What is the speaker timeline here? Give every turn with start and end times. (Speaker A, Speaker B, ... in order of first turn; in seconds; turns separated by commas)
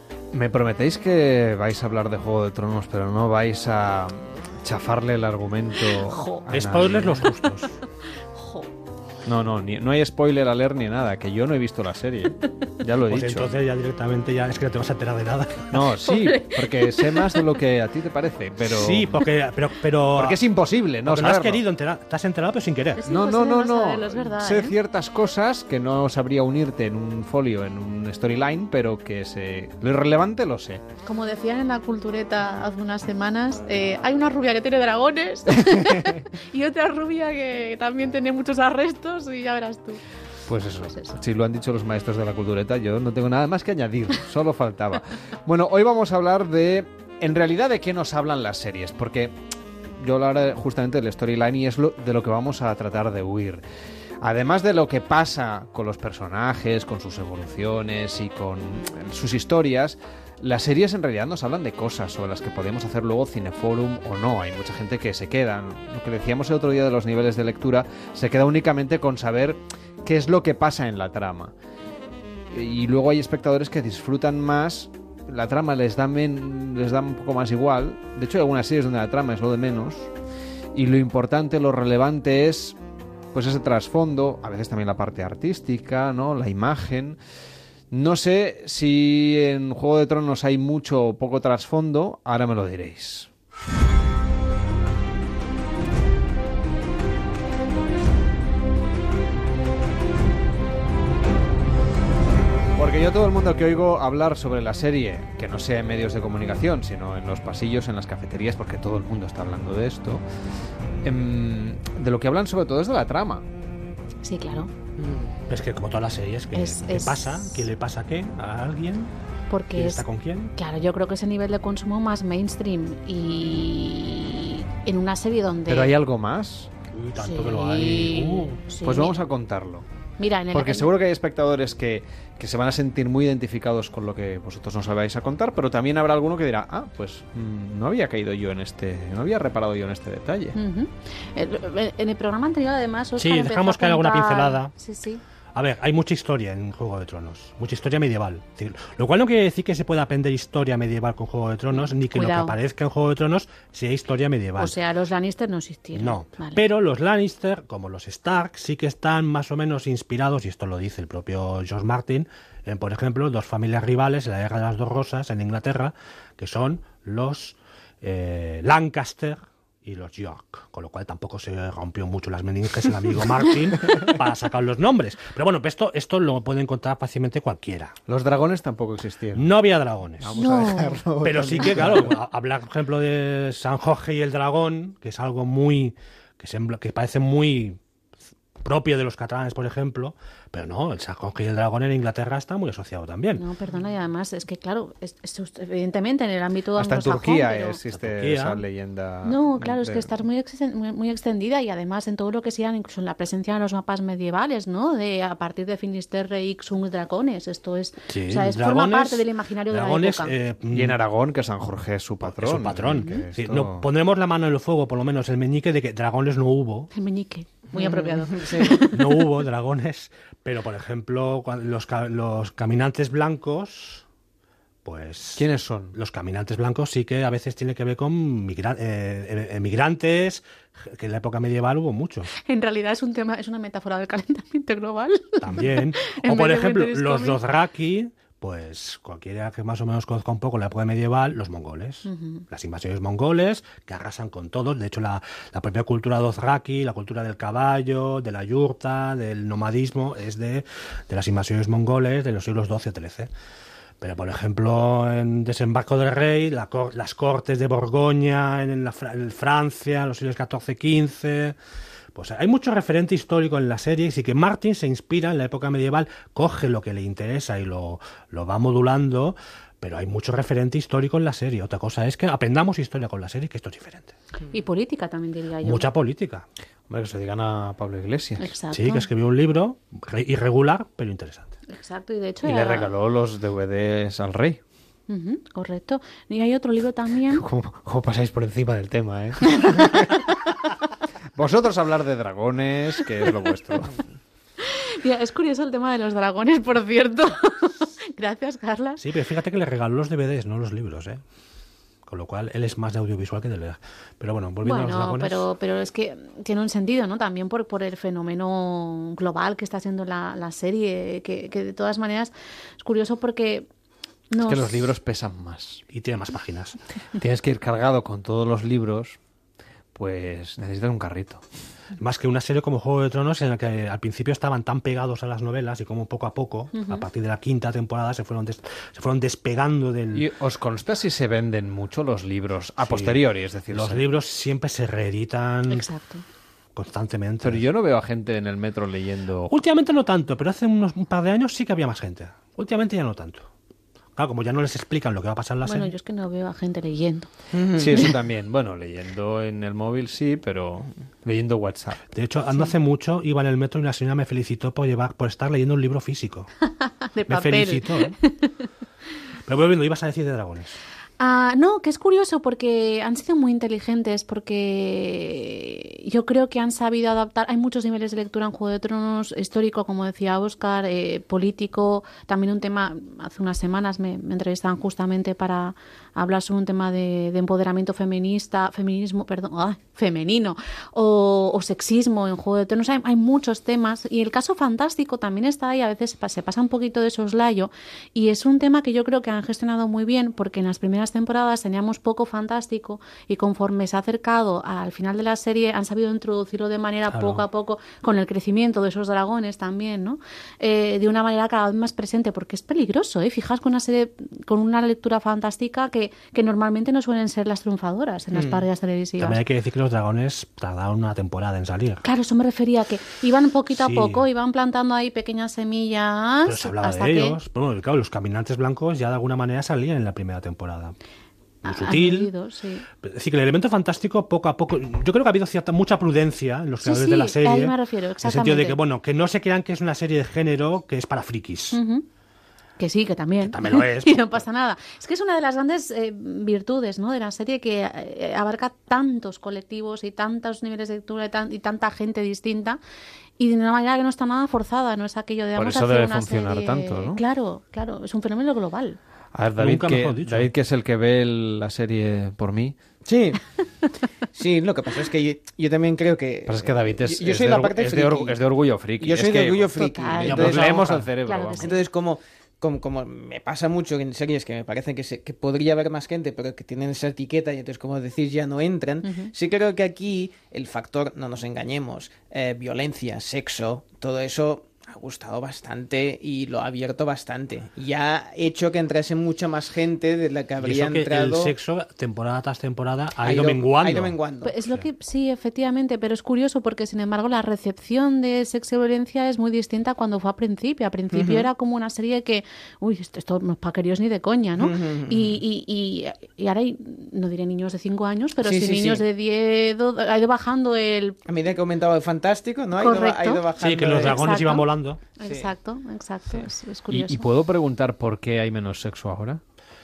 Speaker A: 0.3-7.3, Speaker B: 5.9-6.4, Speaker C: 6.5-7.8, Speaker B: 8.3-8.7, Speaker A: 9.2-13.5, Speaker C: 13.1-15.9, Speaker A: 15.7-19.3, Speaker B: 16.0-17.5, Speaker C: 18.6-20.4, Speaker A: 20.1-21.6, Speaker C: 21.0-23.0, Speaker B: 22.9-24.8, Speaker A: 23.1-30.8, Speaker B: 31.0-40.0, Speaker A: 35.9-36.2, Speaker A: 40.5-49.3, Speaker B: 40.7-41.2, Speaker A: 50.0-53.6, Speaker A: 54.2-71.5, Speaker A: 72.5-80.1, Speaker A: 80.7-82.8, Speaker A: 83.3-87.2, Speaker A: 87.9-93.3, Speaker A: 102.8-110.2, Speaker A: 111.0-113.4, Speaker B: 114.2-114.7, Speaker D: 115.0-115.3, Speaker C: 115.5-119.1, Speaker B: 116.5-117.7, Speaker B: 119.5-120.0, Speaker C: 119.7-120.5, Speaker B: 120.5-125.9, Speaker A: 125.7-126.7, Speaker C: 126.9-128.6, Speaker B: 127.2-129.2, Speaker A: 128.8-129.8, Speaker B: 130.2-130.9, Speaker A: 130.5-140.6, Speaker B: 140.5-145.2, Speaker C: 143.2-144.7, Speaker C: 145.5-154.8, Speaker B: 151.8-152.6, Speaker B: 154.6-156.6, Speaker C: 155.9-177.9, Speaker A: 178.1-179.5, Speaker C: 179.3-187.8, Speaker A: 180.2-182.2, Speaker B: 180.3-181.0, Speaker C: 188.6-193.4, Speaker B: 193.3-197.8, Speaker A: 196.8-200.1, Speaker C: 197.9-198.6, Speaker B: 199.2-210.3, Speaker C: 208.1-211.0, Speaker A: 210.7-213.9, Speaker C: 212.2-216.9, Speaker B: 213.0-213.2, Speaker B: 216.9-219.3, Speaker D: 217.7-218.8, Speaker C: 218.8-224.0, Speaker C: 224.8-232.3, Speaker A: 225.4-225.9, Speaker B: 232.3-237.4, Speaker C: 235.4-253.3, Speaker B: 242.1-242.4, Speaker C: 254.0-261.6, Speaker C: 262.1-274.1, Speaker B: 274.5-275.9, Speaker C: 275.6-276.4, Speaker A: 276.9-278.5, Speaker B: 278.4-279.1, Speaker C: 278.7-281.5, Speaker B: 281.7-282.9, Speaker A: 282.4-284.6, Speaker B: 285.1-287.4, Speaker A: 287.3-290.3, Speaker B: 289.6-290.2, Speaker A: 291.4-294.0, Speaker B: 294.6-299.0, Speaker C: 299.0-301.2, Speaker C: 302.1-305.4, Speaker B: 304.6-313.7, Speaker B: 314.3-314.9, Speaker A: 314.4-315.8, Speaker C: 315.9-316.8, Speaker A: 317.1-319.2, Speaker A: 319.9-321.4, Speaker C: 322.0-330.2, Speaker B: 326.7-327.0, Speaker A: 330.1-334.0, Speaker C: 332.8-335.9, Speaker B: 335.7-336.2, Speaker C: 336.7-337.6, Speaker A: 337.4-339.5, Speaker C: 339.5-343.5, Speaker C: 344.1-345.9, Speaker B: 345.6-347.3, Speaker D: 347.6-348.0, Speaker A: 347.7-352.0, Speaker C: 352.1-356.5, Speaker B: 356.7-358.6, Speaker C: 357.3-358.2, Speaker C: 359.4-360.8, Speaker B: 361.2-409.4, Speaker C: 397.1-397.4, Speaker D: 408.3-408.6, Speaker C: 409.2-412.0, Speaker B: 412.0-417.4, Speaker C: 413.7-414.3, Speaker C: 416.4-420.9, Speaker C: 421.6-422.3, Speaker B: 421.6-422.9, Speaker C: 423.0-431.8, Speaker B: 426.8-428.8, Speaker B: 431.7-432.1, Speaker B: 432.8-442.8, Speaker C: 433.4-434.4, Speaker B: 443.4-449.0, Speaker A: 445.6-447.2, Speaker A: 449.3-452.7, Speaker C: 449.6-450.5, Speaker D: 453.1-453.4, Speaker D: 454.3-458.4, Speaker A: 456.4-461.7, Speaker D: 459.0-460.7, Speaker B: 459.7-461.8, Speaker C: 460.2-461.1, Speaker D: 461.6-481.5, Speaker B: 469.0-469.3, Speaker C: 480.6-484.9, Speaker D: 483.2-484.5, Speaker B: 484.4-501.2, Speaker D: 491.1-491.5, Speaker D: 494.6-495.4, Speaker D: 498.4-499.0, Speaker D: 501.2-504.4, Speaker B: 502.8-507.3, Speaker C: 503.6-505.0, Speaker D: 505.2-505.5, Speaker A: 506.9-509.4